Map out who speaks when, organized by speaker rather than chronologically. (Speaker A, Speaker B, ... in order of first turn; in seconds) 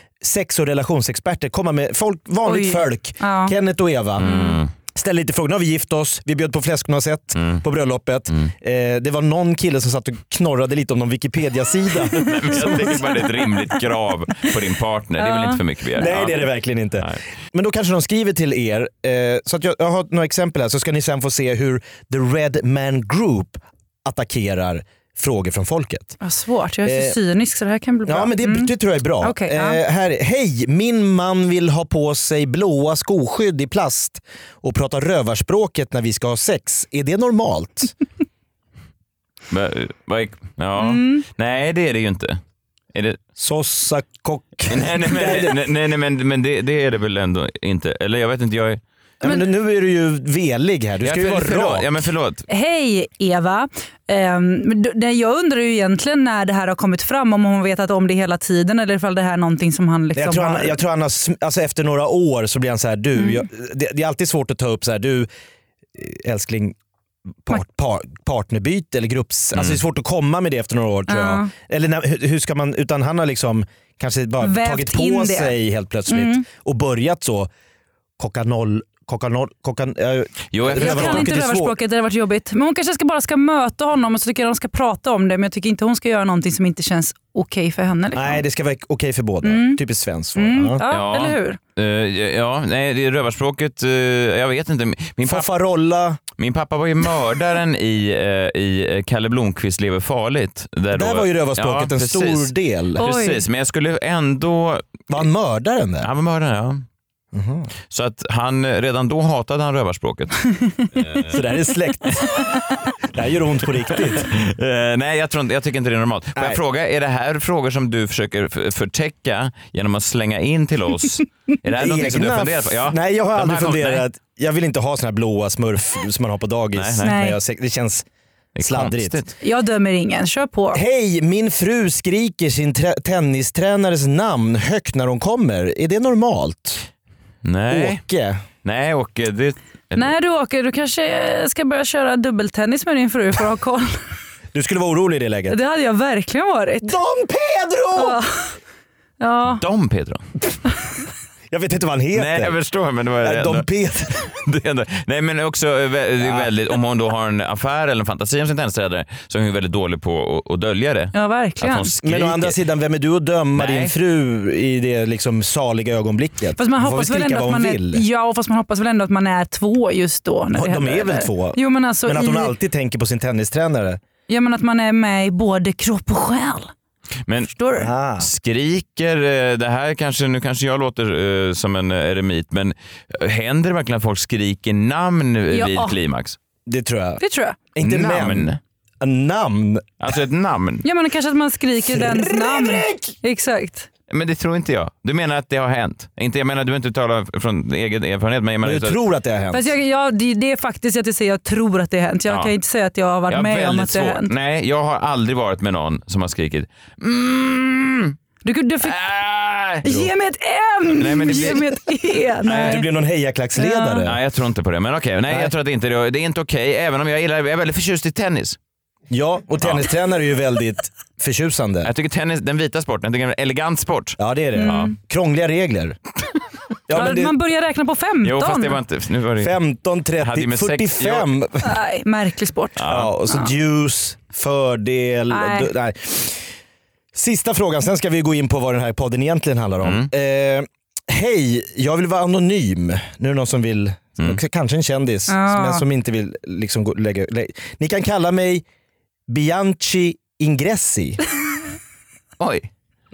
Speaker A: 0.2-4.3, 5.0-13.0, 16.0-26.2, 26.9-27.2, 28.1-37.9, 43.4-45.6, 49.2-51.9, 60.1-65.3, 66.0-66.8, 67.4-77.5, 78.2-81.8, 88.1-90.8, 95.2-96.2, 100.9-103.0, 105.1-106.1, 107.3-107.7, 111.3-112.3, 113.1-114.3, 116.4-116.6, 121.8-128.1, 128.6-129.2, 130.7-136.8, 137.7-138.4, 144.5-145.6, 146.8-148.2, 151.5-152.6, 153.2-154.2, 156.2-156.5, 162.0-168.0, 170.5-174.0, 177.8-178.3, 186.7-187.2, 187.8-189.9, 191.9-193.2, 198.6-199.7, 212.5-214.2, 219.1-221.9, 224.2-226.0, 226.9-227.3, 229.4-231.7, 232.9-236.5, 237.1-248.7, 249.3-251.2
Speaker B: 2.5-3.6, 4.2-4.6, 12.7-13.1, 15.2-15.6, 26.2-29.8, 40.8-41.2, 52.5-60.8, 63.1-63.5, 71.1-71.5, 74.4-76.5, 80.7-88.4, 89.4-89.8, 90.4-91.6, 103.0-103.4, 127.0-127.4, 129.4-130.8, 139.9-144.0, 145.5-147.0, 147.9-148.5, 149.2-149.6, 161.1-161.9, 166.6-172.6, 174.3-176.7, 177.5-177.9, 185.5-186.0, 187.2-187.6, 190.8-193.9, 199.5-204.3, 208.4-209.0, 209.8-212.9, 213.6-214.1, 224.6-224.9, 226.9-228.8, 231.6-233.5, 235.3-235.7, 245.3-245.8
Speaker C: 4.2-4.7, 7.4-7.6, 12.2-16.4, 39.5-42.4, 42.9-43.2, 44.7-48.8, 51.0-52.5, 69.5-69.8, 80.5-81.3, 90.9-95.5, 96.4-105.0, 106.0-106.8, 107.9-110.3, 111.0-111.3, 114.2-124.0, 126.8-127.2, 128.6-129.3, 137.4-138.0, 138.6-140.1, 149.6-150.2, 152.1-153.7, 154.3-162.6, 163.6-163.9, 178.2-186.4, 187.8-188.6, 190.0-190.9, 194.1-199.0, 202.3-202.5, 203.3-208.2, 208.8-209.9, 210.9-211.6, 212.4-212.8, 214.0-218.6, 219.6-219.9, 221.8-224.9, 228.2-229.5, 230.2-231.3, 232.8-233.1, 239.8-240.1, 252.4-252.7